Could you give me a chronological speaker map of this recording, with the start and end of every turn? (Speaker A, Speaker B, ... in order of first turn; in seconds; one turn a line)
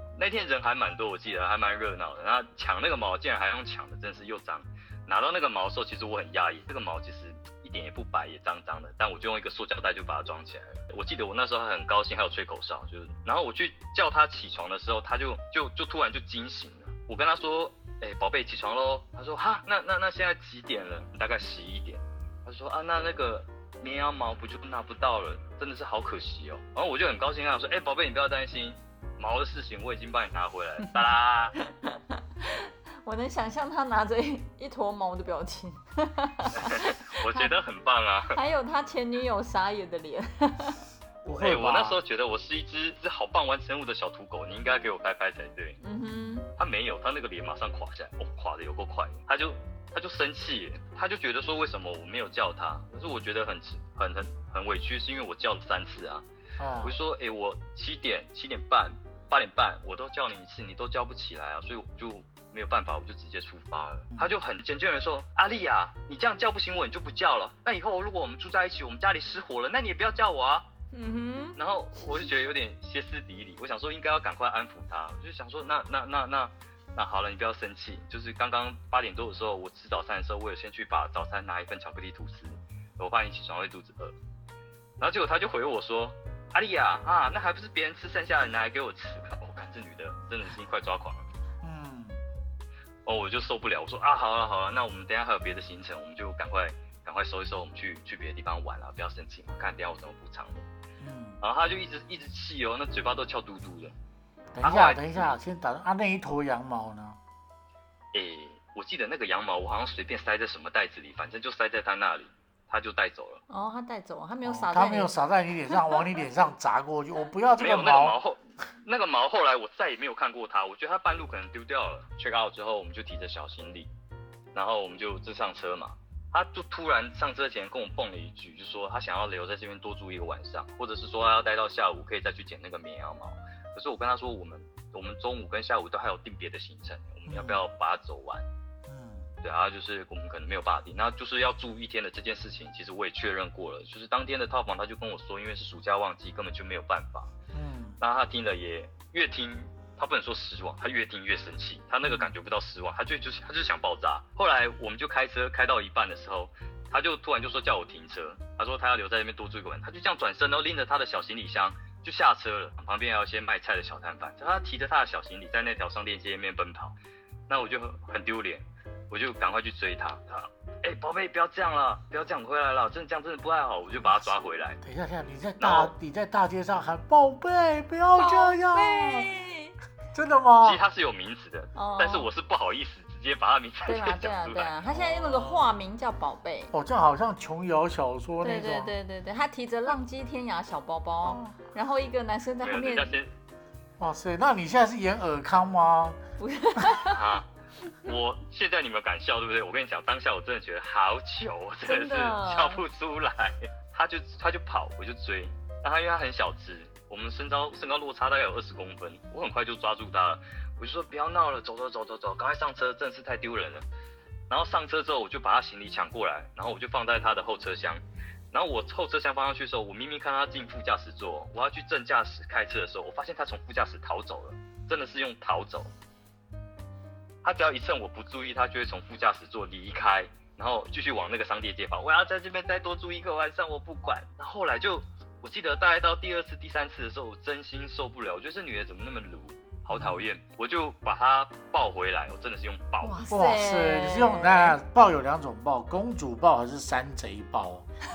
Speaker A: 0.1-31.5
Speaker B: 31.8-37.5
Speaker A: 36.5-38.4
Speaker B: 38.3-40.8
Speaker C: 41.2-42.0
Speaker A: 41.3-45.8
Speaker B: 45.8-46.5
Speaker A: 46.5-56.2
Speaker C: 56.6-57.0
Speaker A: 56.8-70.7
Speaker B: 70.9-71.6
Speaker A: 71.6-84.1
Speaker A: 85.0-91.2
Speaker C: 91.6-92.2
Speaker A: 93.0-100.6
Speaker C: 101.0-101.4
Speaker A: 101.4-103.9
Speaker C: 104.5-107.2
Speaker A: 104.6-105.3
Speaker A: 108.1-113.4
Speaker B: 113.5-115.1
Speaker C: 114.4-118.2
Speaker A: 117.6-123.9
Speaker A: 124.5-138.4
Speaker C: 137.3-137.6
Speaker C: 138.9-139.3
Speaker A: 139.4-147.3
Speaker C: 147.5-148.0
Speaker A: 148.0-167.0
Speaker C: 152.0-152.3
Speaker A: 167.5-174.8
Speaker C: 174.8-179.3
Speaker A: 175.6-175.9
Speaker B: 178.2-179.8
Speaker C: 180.1-180.8
Speaker A: 180.6-184.8
Speaker B: 181.7-182.3
Speaker B: 183.8-186.7
Speaker C: 186.7-188.9
Speaker B: 188.4-193.1
Speaker A: 192.6-193.3
Speaker C: 194.0-196.2
Speaker B: 196.4-197.2
Speaker A: 197.1-213.8
Speaker B: 201.8-202.8
Speaker A: 214.5-218.0
Speaker A: 218.5-225.9
Speaker A: 227.4-243.2
Speaker C: 239.9-240.2
Speaker B: 243.0-244.8
Speaker C: 243.3-247.9